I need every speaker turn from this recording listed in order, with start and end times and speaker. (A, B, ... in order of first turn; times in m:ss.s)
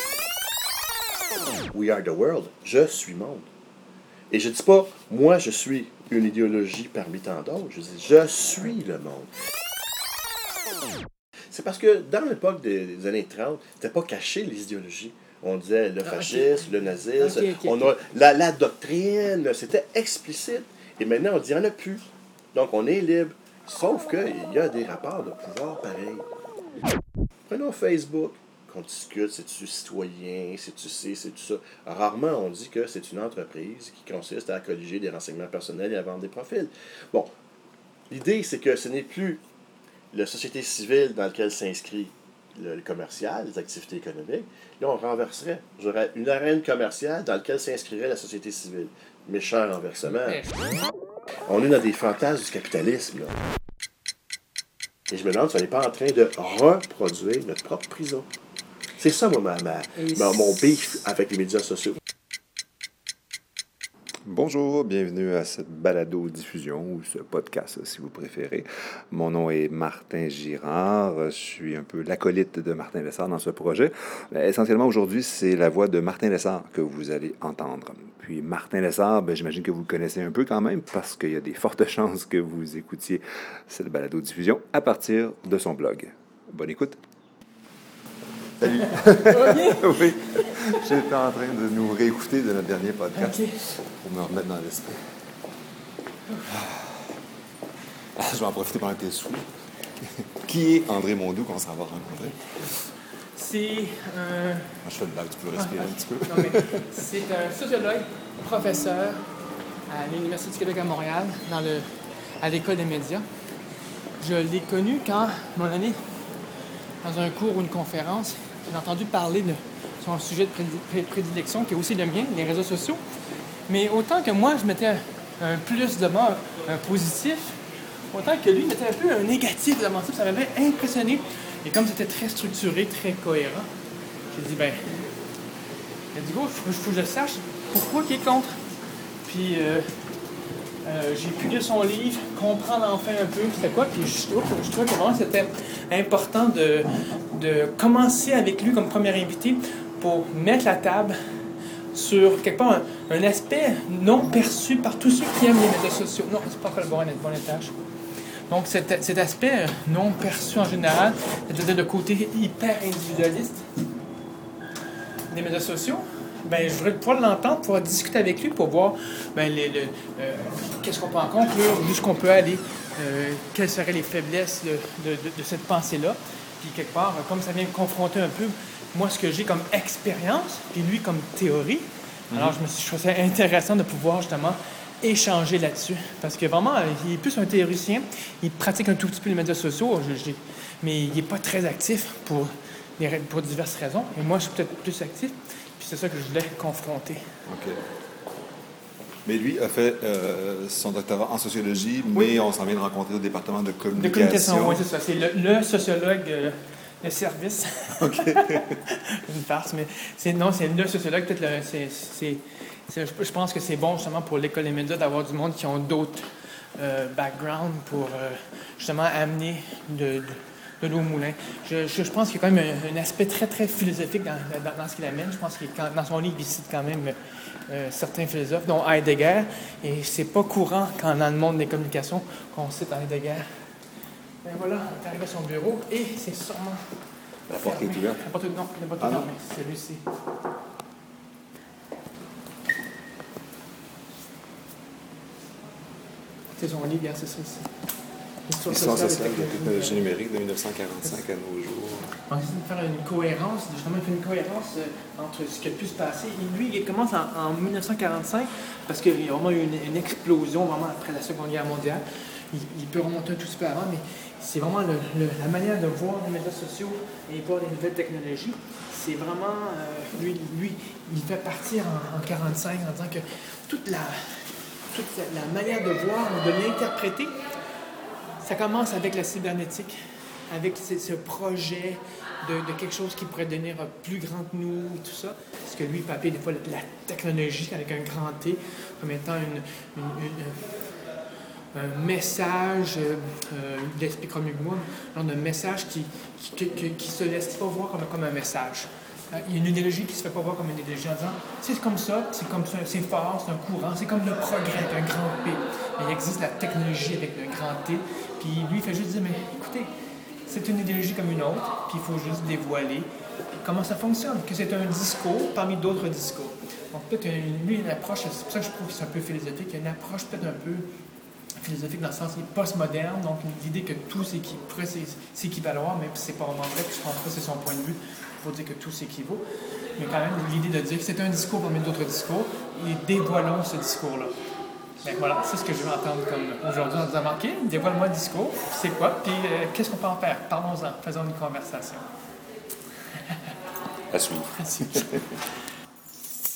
0:01.7-0:03.5 A
0:04.3-0:09.3 A
0:11.5-0:26.3 A
0:16.0-0:18.0 B
0:27.5-0:37.3 A
0:38.1-0:39.4 A
0:40.1-0:50.4 A
0:50.1-0:50.7 B
0:51.5-0:53.4 A
0:55.1-0:58.3 A
0:59.0-1:02.0 A
1:04.2-1:27.0 C
1:28.6-1:35.1 C
1:29.0-1:29.9 B
1:30.5-1:30.8 B
1:33.1-1:33.6 B
1:36.5-1:37.1 C
1:38.2-1:39.5 C
1:40.4-1:42.4 C
1:42.2-1:44.8 B
1:44.8-1:46.9 C
1:45.6-1:49.2 B
1:49.9-1:51.9 B
1:52.4-1:53.3 B
1:54.2-1:56.0 B
1:57.0-2:03.0 B
2:03.7-2:07.6 B
2:08.1-2:13.7 B
2:14.3-2:15.1 B
2:16.1-2:18.6 B
2:19.2-2:19.9 B
2:20.8-2:31.2 B
2:31.9-2:37.8 B
2:38.5-2:43.7 B
2:45.3-3:17.3 B
3:17.5-3:17.8 C
3:19.2-3:24.8 C
3:24.0-3:47.2 B
3:28.0-3:28.7 C
3:47.7-3:53.5 B
3:54.4-3:57.0 B
3:57.5-3:58.2 C
3:57.5-4:00.0 B
3:59.0-3:59.3 C
4:06.6-4:07.7 B
4:08.5-4:10.1 B
4:08.7-4:12.1 C
4:12.3-4:34.4 B
4:34.9-4:37.4 B
4:38.4-4:50.8 B
4:51.7-5:09.9 B
5:10.5-5:13.1 B
5:13.6-5:20.9 B
5:21.6-5:29.4 B
5:30.0-5:34.4 B
5:35.0-5:42.1 B
5:44.1-5:45.2 C
5:44.6-5:45.1 B